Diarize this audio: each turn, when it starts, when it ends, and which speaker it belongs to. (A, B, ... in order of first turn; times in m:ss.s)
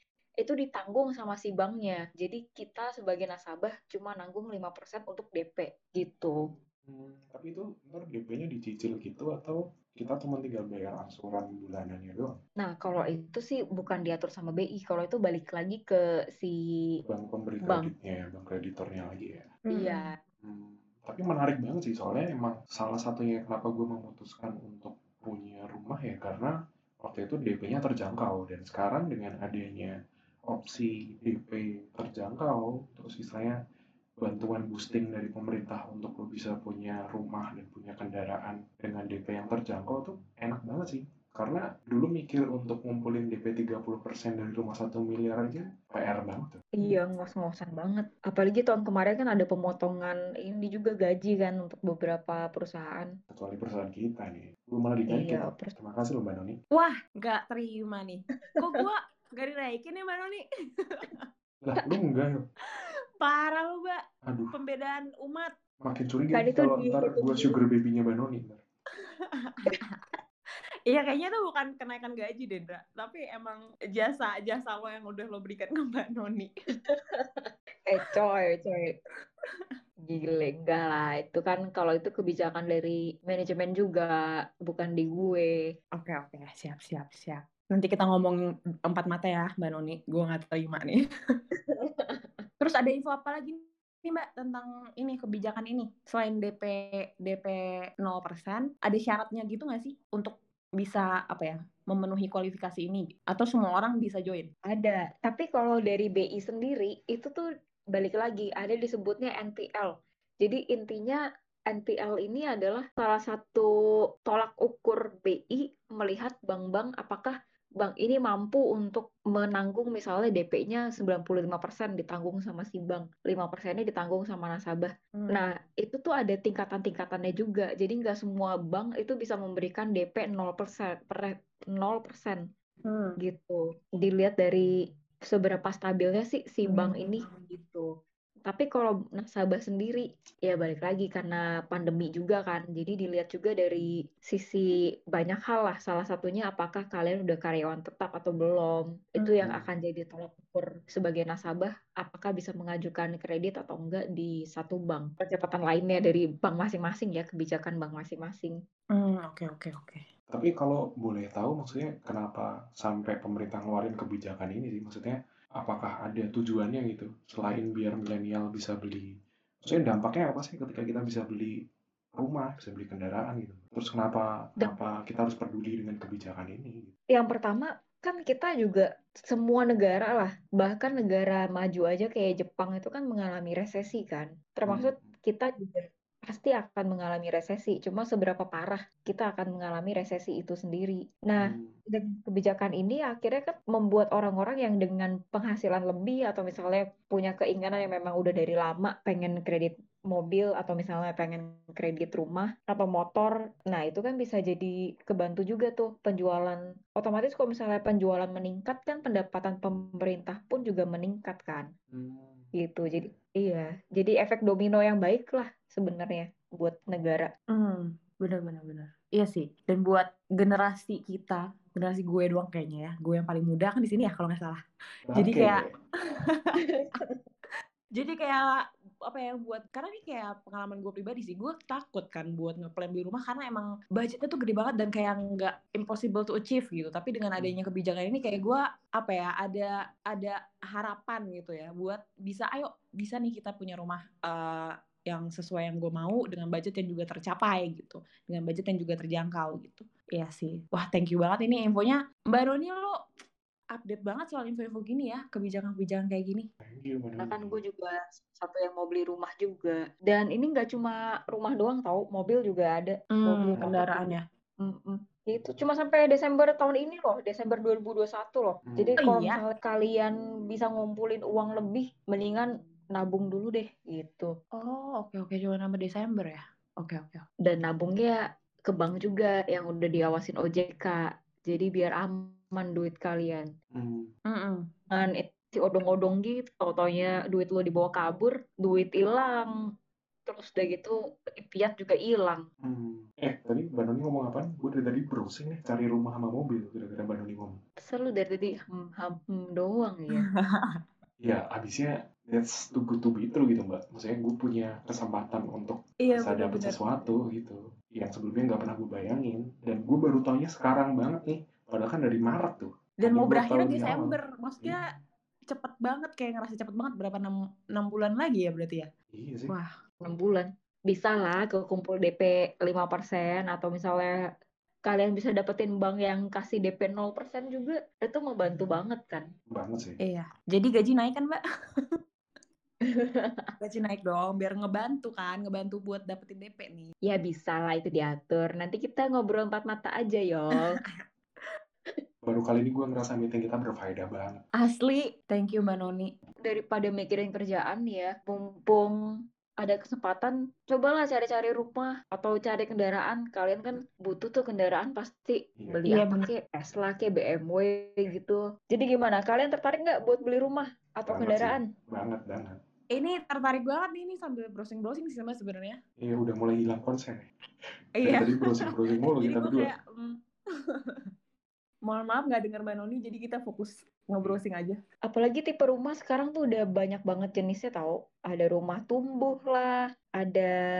0:00.4-0:06.4 A
0:06.9-0:12.3 B
0:12.6-0:16.6 A
0:17.1-0:19.5 B
0:17.6-0:17.9 A
0:19.6-0:20.1 C
0:19.7-0:20.1 A
0:20.4-0:29.9 B
0:30.5-0:33.6 B
0:34.2-0:46.6 B
0:46.8-0:53.1 A
0:53.3-0:56.6 B
0:55.1-0:55.7 A
0:56.7-1:00.4 C
1:01.0-1:01.2 C
1:01.6-1:02.4 B
1:03.2-1:05.5 C
1:04.2-1:04.5 B
1:05.8-1:08.6 B
1:06.3-1:07.6 A
1:09.4-1:10.0 C
1:10.9-1:16.5 C
1:16.8-1:18.9 A
1:20.1-1:25.5 A
1:26.0-1:31.0 C
1:31.7-1:32.4 A
1:32.6-1:44.5 C
1:44.7-1:53.7 A
1:54.3-2:12.4 A
2:05.2-2:05.4 C
2:12.8-2:13.2 C
2:13.2-2:14.7 A
2:15.3-2:17.9 A
2:16.6-2:17.4 C
2:18.4-2:38.6 A
2:38.9-2:40.0 C
2:40.3-2:49.1 B
2:49.6-2:51.6 B
2:52.2-2:56.9 B
2:57.1-3:31.7 A
3:04.7-3:05.0 B
3:11.4-3:11.7 B
3:31.9-3:32.5 B
3:32.6-3:37.3 A
3:37.5-3:44.6 C
3:45.1-3:45.6 B
3:45.2-3:45.6 C
3:46.6-3:47.2 A
3:47.9-4:13.0 C
4:13.7-4:16.5 C
4:16.6-4:17.6 B
4:17.2-4:34.3 A
4:23.1-4:24.2 C
4:28.6-4:29.0 B
4:29.0-4:29.4 C
4:34.5-4:37.2 C
4:37.4-4:43.4 A
4:43.7-4:44.1 B
4:44.3-4:44.6 C
4:44.9-4:49.5 A
4:50.2-4:52.4 A
4:52.6-4:57.6 B
4:57.8-5:00.3 A
5:00.2-5:00.8 C
5:01.2-5:14.8 B
5:06.0-5:06.8 C
5:13.0-5:14.8 C
5:15.5-5:18.9 C
5:19.1-5:19.5 B
5:20.0-5:24.1 A
5:24.8-5:29.2 A
5:29.5-5:30.0 B
5:30.0-5:31.4 C
5:32.8-5:33.5 A
5:33.6-5:36.9 C
5:37.0-5:40.7 A
5:40.6-5:41.0 C
5:42.2-5:44.4 B
5:44.6-5:46.1 C
5:46.4-5:48.9 A
5:49.6-6:01.7 A
5:55.9-5:56.3 C
6:01.1-6:02.6 B
6:02.9-6:05.8 C
6:06.0-6:07.2 B
6:08.0-6:10.1 C
6:08.0-6:09.7 B
6:11.8-6:14.8 C
6:15.0-6:20.5 A